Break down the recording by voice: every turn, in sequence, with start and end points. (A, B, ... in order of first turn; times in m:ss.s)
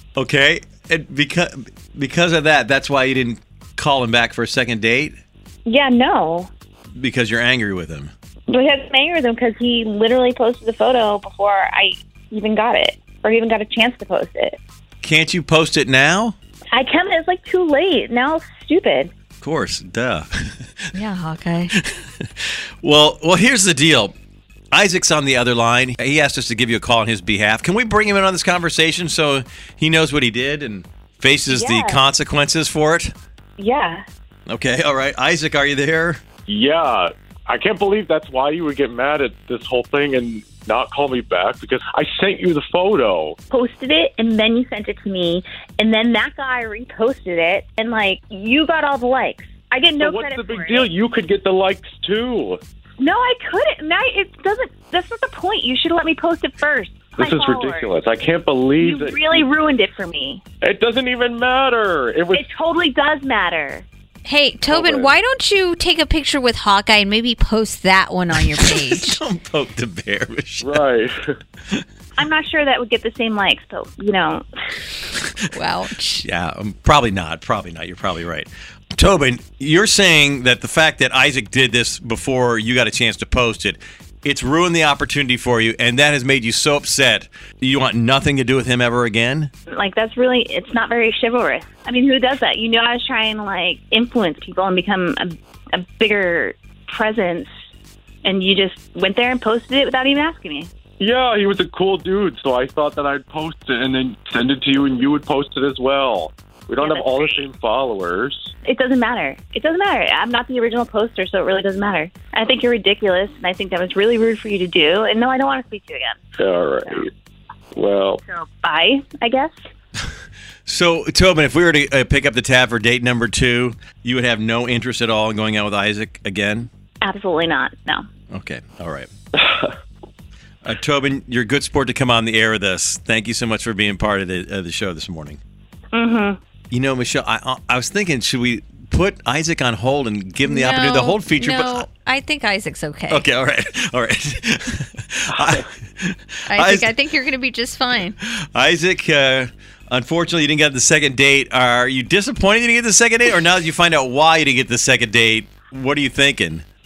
0:00.2-0:05.2 A
0:05.7-0:06.5 B
0:07.0-0:08.1 A
0:08.5-0:14.6 B
0:15.0-0:16.3 A
0:16.7-0:19.1 B
0:19.4-0:20.5 A
0:20.9-0:21.7 C
0:22.8-0:24.1 A
0:24.7-0:33.1 A
0:31.5-0:32.0 B
0:33.6-0:34.0 B
0:34.5-0:36.2 A
0:36.5-0:43.4 D
0:43.5-0:50.9 B
0:50.1-0:52.6 D
0:53.0-0:57.9 B
0:57.2-0:59.4 D
0:58.8-1:00.4 B
1:00.6-1:02.4 D
1:02.3-1:03.9 B
1:04.2-1:09.2 C
1:04.7-1:05.0 D
1:08.3-1:10.8 A
1:10.6-1:11.4 D
1:12.2-1:14.8 B
1:15.5-1:16.2 C
1:16.2-1:29.5 A
1:29.7-1:37.5 B
1:38.2-1:40.7 B
1:41.0-1:48.5 D
1:46.8-1:47.4 B
1:48.6-1:56.2 B
1:56.4-1:57.1 D
1:57.7-1:58.2 D
1:58.2-1:59.5 B
2:00.6-2:06.7 A
2:07.0-2:08.1 B
2:08.3-2:09.1 A
2:10.6-2:15.4 A
2:15.9-2:16.4 B
2:16.7-2:21.9 A
2:20.4-2:23.2 C
2:23.1-2:27.0 A
2:26.5-2:28.2 C
2:28.2-2:36.6 A